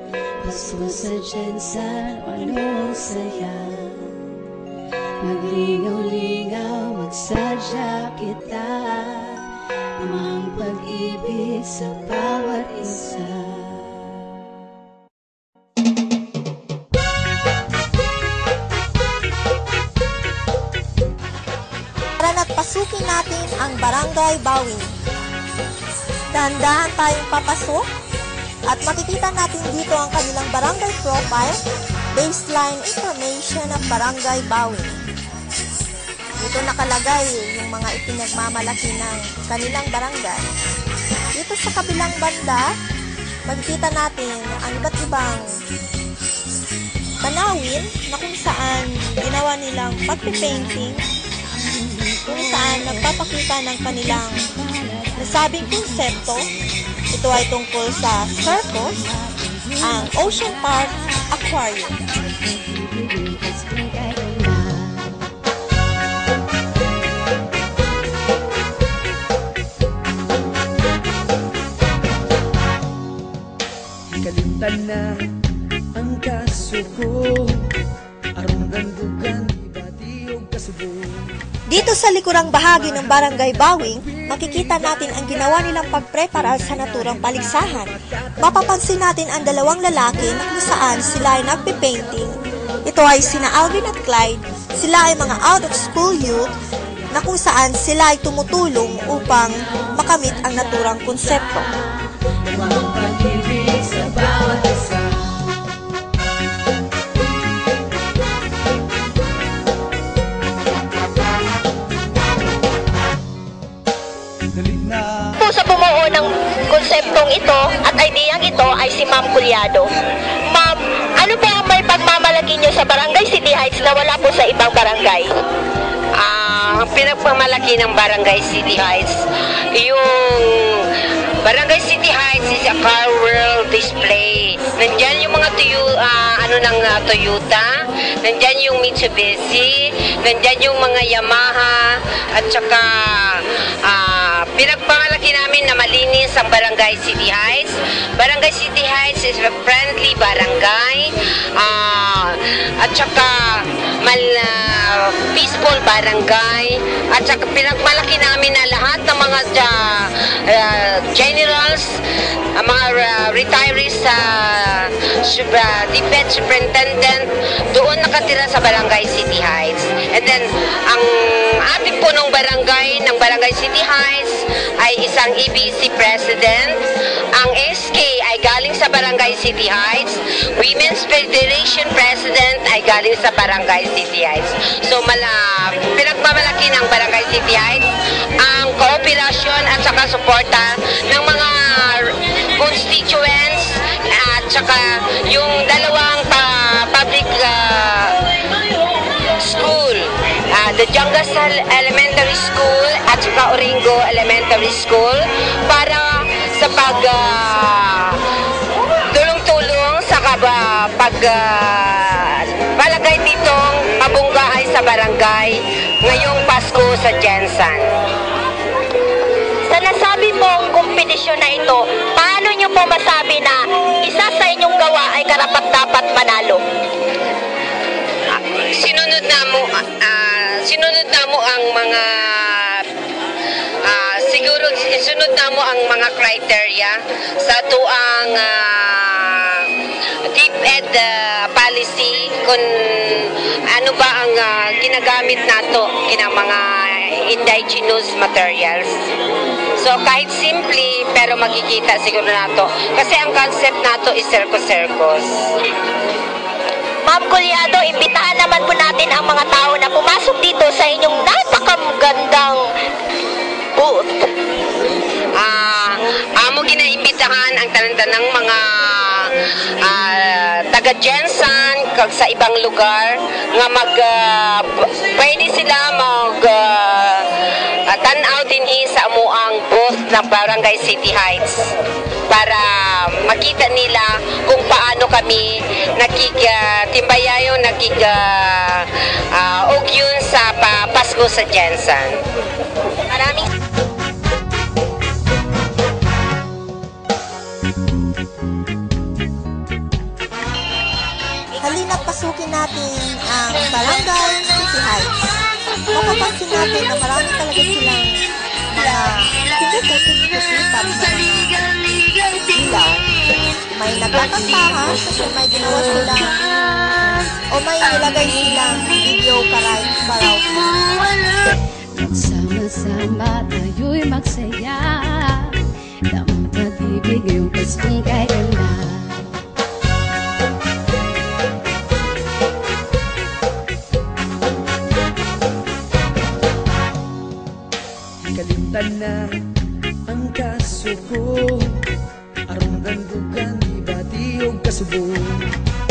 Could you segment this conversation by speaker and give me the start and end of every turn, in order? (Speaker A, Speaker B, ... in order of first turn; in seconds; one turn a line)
Speaker A: 0.4-4.4
Speaker A: 5.2-14.2
Speaker B: 22.2-24.9
Speaker B: 26.3-27.9
Speaker B: 28.7-31.6
Speaker B: 32.1-35.0
Speaker B: 36.4-40.5
Speaker B: 41.4-42.7
Speaker B: 43.5-45.4
Speaker B: 47.2-51.0
Speaker A: 51.4-53.4
Speaker B: 52.3-54.5
Speaker A: 54.0-56.3
Speaker B: 55.1-56.5
Speaker B: 57.1-59.0
Speaker A: 59.0-61.2
Speaker B: 59.8-62.1
Speaker A: 62.3-65.3
Speaker C: 74.1-75.3
Speaker C: 75.9-77.7
Speaker C: 78.3-81.3
Speaker B: 81.7-96.6
Speaker C: 82.7-85.8
Speaker C: 86.5-88.6
Speaker B: 97.1-101.7
Speaker A: 102.6-104.9
Speaker C: 102.9-103.3
Speaker D: 115.4-119.9
Speaker D: 120.5-125.4
Speaker E: 126.2-162.0
Speaker E: 162.6-176.8
Speaker E: 177.3-187.9
Speaker E: 188.4-208.2
Speaker E: 209.1-217.9
Speaker D: 219.7-226.6
Speaker E: 228.3-232.9
Speaker E: 233.8-249.1
Speaker E: 249.8-255.6
Speaker D: 257.1-262.7
Speaker D: 263.8-264.3
Speaker E: 265.4-281.7
Speaker E: 282.3-292.2
Speaker B: 301.6-305.2
Speaker B: 305.9-313.1
Speaker B: 313.7-316.4
Speaker A: 316.3-317.2
Speaker B: 317.5-320.9
Speaker A: 321.9-329.4
Speaker C: 338.2-339.4
Speaker C: 340.1-341.9
Speaker C: 342.5-345.5